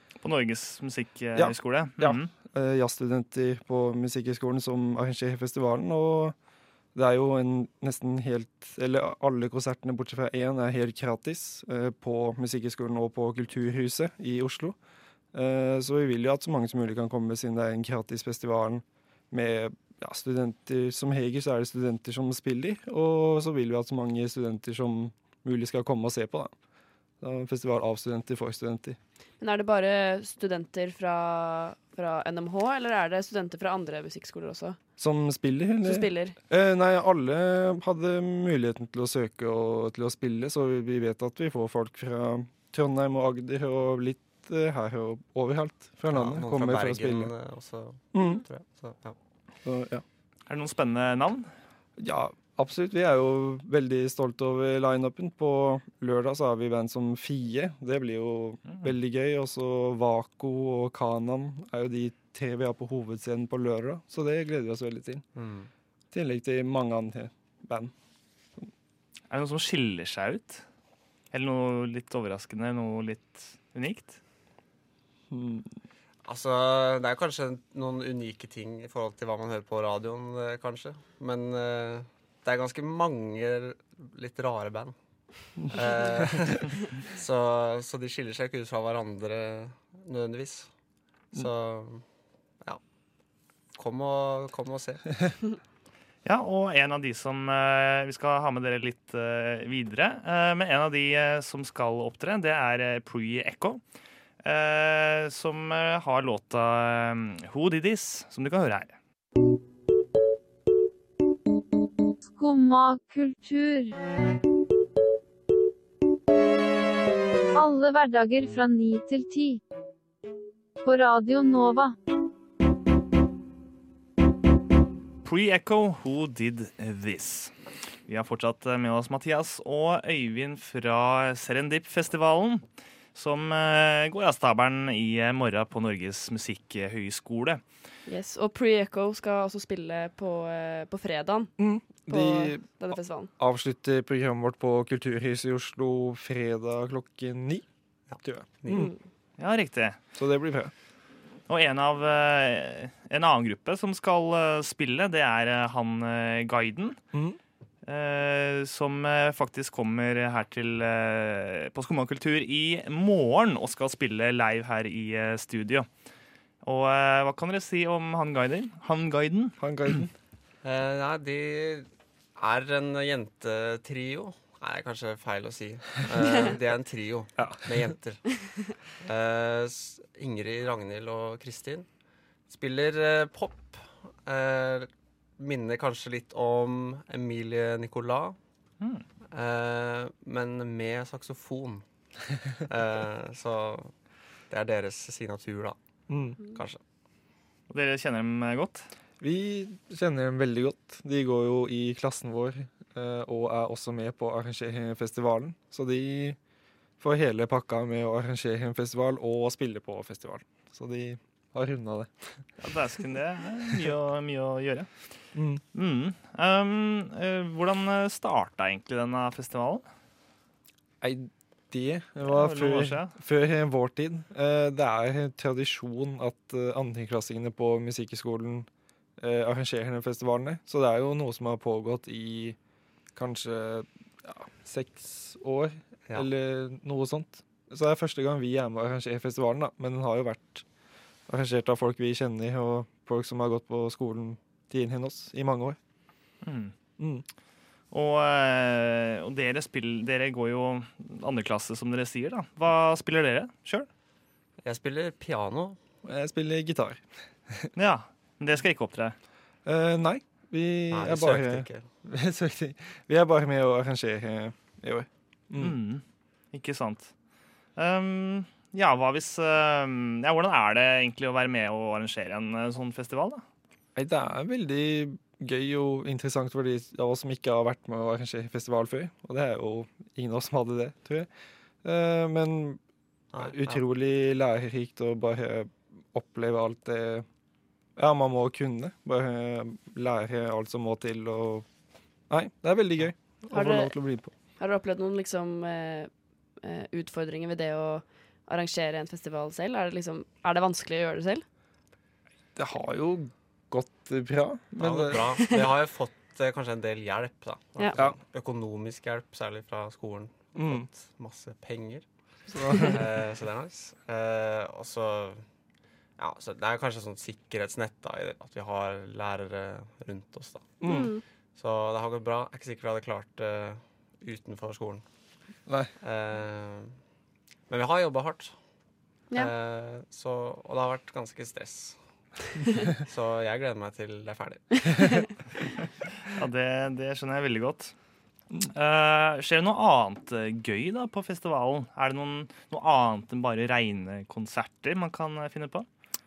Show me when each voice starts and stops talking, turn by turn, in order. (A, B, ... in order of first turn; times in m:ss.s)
0:00.2-0:02.3 A
0:01.4-0:06.4 B
0:07.0-0:14.8 B
0:15.3-0:26.5 B
0:27.2-0:29.0 B
0:29.4-0:34.8 C
0:35.0-0:47.3 B
0:35.8-0:36.4 C
0:46.1-0:49.2 D
0:48.1-0:48.4 B
0:49.6-0:50.0 B
0:50.5-0:51.5 A
0:52.0-1:05.2 B
1:05.4-1:05.7 D
1:06.1-1:07.9 B
1:09.3-1:10.6 A
1:11.3-1:14.2 A
1:15.3-1:15.7 B
1:16.2-1:24.9 D
1:25.6-1:30.7 D
1:31.3-1:32.0 D
1:33.8-1:35.3 D
1:36.2-1:43.8 A
1:44.4-1:49.0 A
1:52.3-1:54.0 E
1:57.6-1:59.6 E
2:00.8-2:02.0 E
2:05.2-2:07.5 A
2:08.1-2:12.6 A
2:13.2-2:17.6 A
2:18.1-2:21.5 C
2:21.6-2:22.8 B
2:22.1-2:23.3 C
2:23.4-2:27.7 B
2:28.1-2:28.9 D
2:28.2-2:28.9 B
2:28.7-2:29.0 C
2:29.4-2:30.0 A
2:30.2-2:30.7 B
2:31.5-2:37.0 A
2:37.1-2:37.4 B
2:37.9-2:45.9 A
2:46.6-2:49.6 A
2:49.6-2:50.1 B
2:50.6-3:01.9 D
2:57.4-2:57.9 B
3:02.5-3:08.4 D
3:09.3-3:11.8 D
3:12.6-3:13.9 D
3:14.5-3:15.8 D
3:16.1-3:16.4 B
3:16.4-3:16.8 D
3:17.7-3:18.9 A
3:19.2-3:26.4 B
3:27.0-3:32.5 B
3:32.6-3:34.9 A
3:35.4-3:35.6 B
3:35.7-3:39.8 A
3:41.0-3:48.7 B
3:42.2-3:43.1 A
3:49.2-3:52.6 B
3:53.2-4:00.6 B
4:01.3-4:05.8 B
4:06.4-4:06.7 A
4:07.0-4:07.2 B
4:07.9-4:13.9 A
4:14.6-4:15.8 D
4:16.0-4:17.7 B
4:17.8-4:19.2 A
4:19.6-4:25.8 B
4:20.9-4:21.8 D
4:25.6-4:26.0 A
4:26.5-4:27.1 A
4:27.8-4:33.4 A
4:34.0-4:41.3 B
4:41.8-4:42.8 B
4:43.3-4:43.8 D
4:43.4-4:47.3 B
4:48.0-4:51.7 B
4:52.3-4:54.3 B
4:53.5-4:53.9 C
4:54.6-4:56.1 C
4:56.6-5:01.4 C
5:02.6-5:05.5 B
5:04.8-5:12.1 D
5:10.6-5:10.9 B
5:12.5-5:13.1 B
5:12.7-5:15.4 D
5:16.2-5:20.8 D
5:20.8-5:21.1 B
5:20.9-5:21.2 C
5:21.6-5:25.0 D
5:25.7-5:25.9 B
5:26.0-5:27.0 D
5:27.7-5:28.6 D
5:29.3-5:32.0 D
5:32.9-5:35.3 D
5:36.3-5:37.9 A
5:38.7-5:45.9 A